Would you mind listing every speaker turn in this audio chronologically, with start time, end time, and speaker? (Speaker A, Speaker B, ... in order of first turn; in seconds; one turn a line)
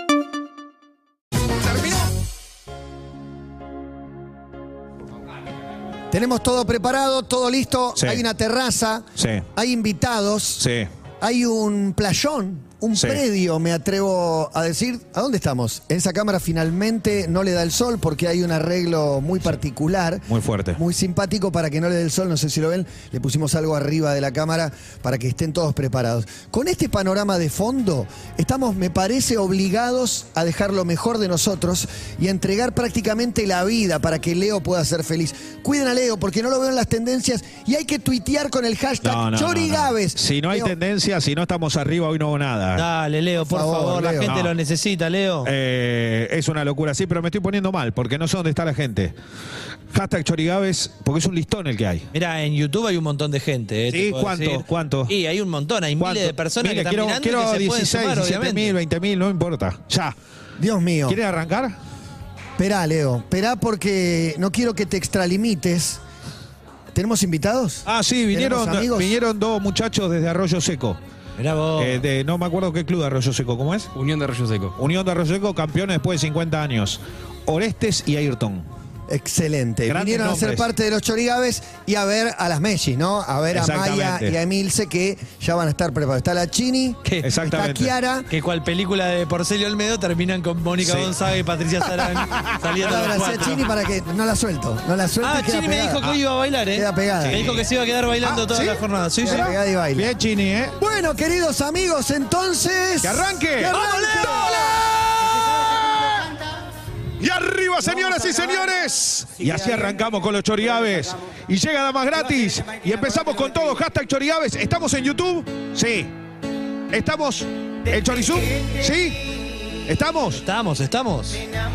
Speaker A: 1.6-2.1
Speaker B: 6.1-10.7
Speaker A: 9.2-9.4
Speaker A: 10.6-10.9
Speaker B: 11.2-40.7
Speaker A: 12.9-13.2
Speaker A: 20.3-20.8
Speaker A: 39.0-42.8
Speaker C: 42.7-45.5
Speaker B: 43.4-44.3
Speaker A: 44.2-44.5
Speaker A: 45.4-49.1
Speaker A: 49.9-52.1
Speaker C: 52.1-58.8
Speaker A: 53.9-55.1
Speaker A: 56.0-60.1
Speaker B: 60.6-61.2
Speaker A: 61.1-61.8
Speaker B: 62.6-66.0
Speaker B: 66.9-69.1
Speaker A: 67.8-71.0
Speaker C: 71.4-72.0
Speaker A: 71.8-73.9
Speaker A: 74.7-78.7
Speaker B: 79.1-88.3
Speaker A: 79.9-80.6
Speaker A: 83.5-84.3
Speaker C: 87.0-87.3
Speaker A: 87.2-87.9
Speaker C: 88.3-93.6
Speaker A: 90.8-91.1
Speaker A: 92.2-93.4
Speaker B: 92.8-96.1
Speaker C: 95.2-99.5
Speaker B: 96.7-97.5
Speaker A: 97.3-97.6
Speaker A: 98.2-100.7
Speaker B: 99.2-100.1
Speaker B: 100.8-104.7
Speaker A: 103.0-103.7
Speaker C: 103.7-105.3
Speaker A: 107.2-116.1
Speaker A: 116.9-119.2
Speaker A: 119.9-120.4
Speaker C: 120.3-121.4